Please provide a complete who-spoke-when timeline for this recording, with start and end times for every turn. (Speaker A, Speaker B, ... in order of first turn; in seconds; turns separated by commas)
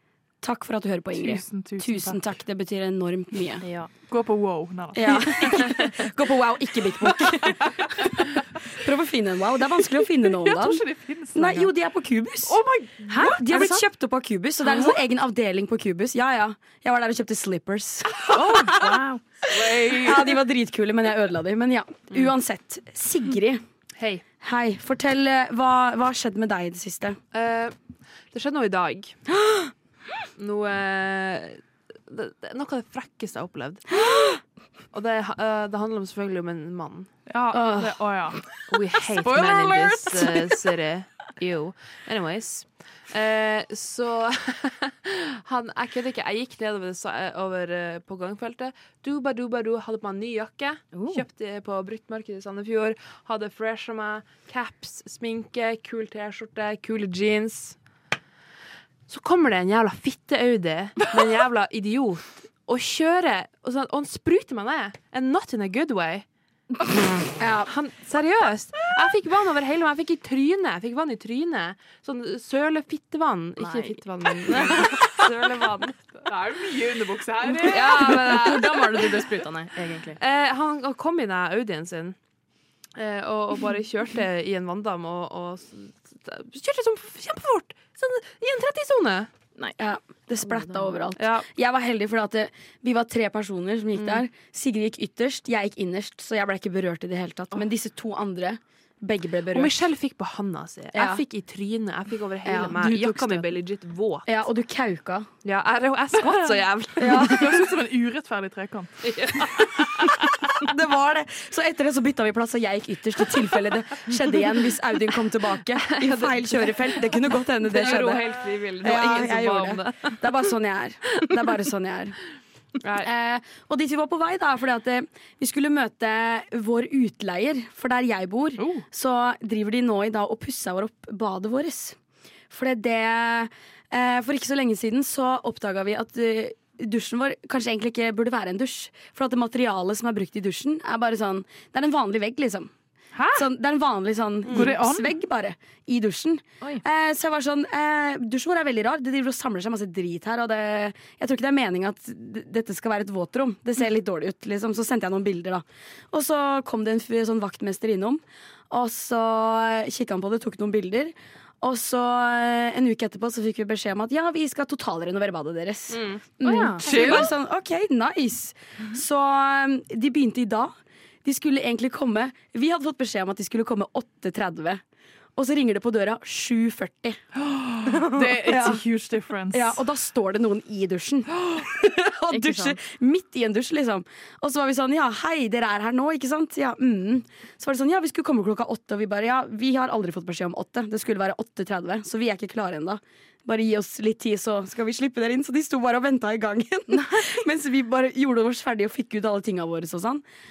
Speaker A: 0.4-3.6, Speaker B: 1.1-2.2, Speaker C: 3.6-3.9, Speaker B: 4.1-5.9, Speaker A: 4.9-8.1, Speaker B: 7.1-8.3, Speaker A: 8.7-12.6, Speaker B: 10.3-11.7, Speaker B: 12.4-13.4, Speaker C: 13.1-13.8, Speaker A: 13.1-18.2, Speaker B: 18.2-18.9, Speaker C: 18.3-19.2, Speaker B: 19.4-20.4, Speaker A: 19.5-23.6, Speaker D: 24.0-24.2, Speaker A: 24.4-27.2, Speaker D: 27.3-27.7, Speaker D: 28.3-29.1, Speaker A: 29.3-29.7, Speaker D: 30.4-33.9, Speaker D: 34.9-37.1, Speaker B: 37.3-38.5, Speaker A: 37.5-38.0, Speaker D: 38.7-57.8, Speaker B: 39.0-40.6, Speaker C: 50.9-51.2, Speaker D: 59.1-66.2, Speaker A: 67.4-67.7, Speaker D: 67.7-76.2, Speaker C: 73.6-74.7, Speaker B: 76.2-78.6, Speaker D: 77.5-79.1, Speaker C: 77.8-80.2, Speaker D: 80.2-82.2, Speaker D: 83.0-89.3, Speaker A: 89.8-99.8, Speaker C: 90.4-91.0, Speaker D: 91.2-91.5, Speaker D: 94.0-94.2, Speaker D: 99.5-104.3, Speaker A: 100.9-101.2, Speaker C: 102.5-103.4, Speaker A: 104.2-105.3, Speaker D: 105.4-107.7, Speaker B: 106.1-109.7, Speaker A: 107.0-107.6, Speaker D: 109.0-110.4, Speaker A: 110.5-122.2, Speaker D: 115.9-116.9, Speaker D: 117.7-120.2, Speaker D: 122.8-123.1, Speaker A: 123.0-132.0, Speaker A: 132.5-142.7, Speaker B: 143.1-143.4, Speaker A: 143.3-170.7, Speaker B: 144.5-145.1, Speaker D: 165.9-166.2, Speaker C: 166.4-167.2, Speaker B: 166.8-167.3, Speaker A: 171.2-174.8, Speaker A: 175.3-177.2, Speaker B: 177.3-179.8, Speaker A: 178.4-178.8, Speaker A: 179.5-200.2, Speaker C: 182.3-182.8, Speaker C: 196.9-197.4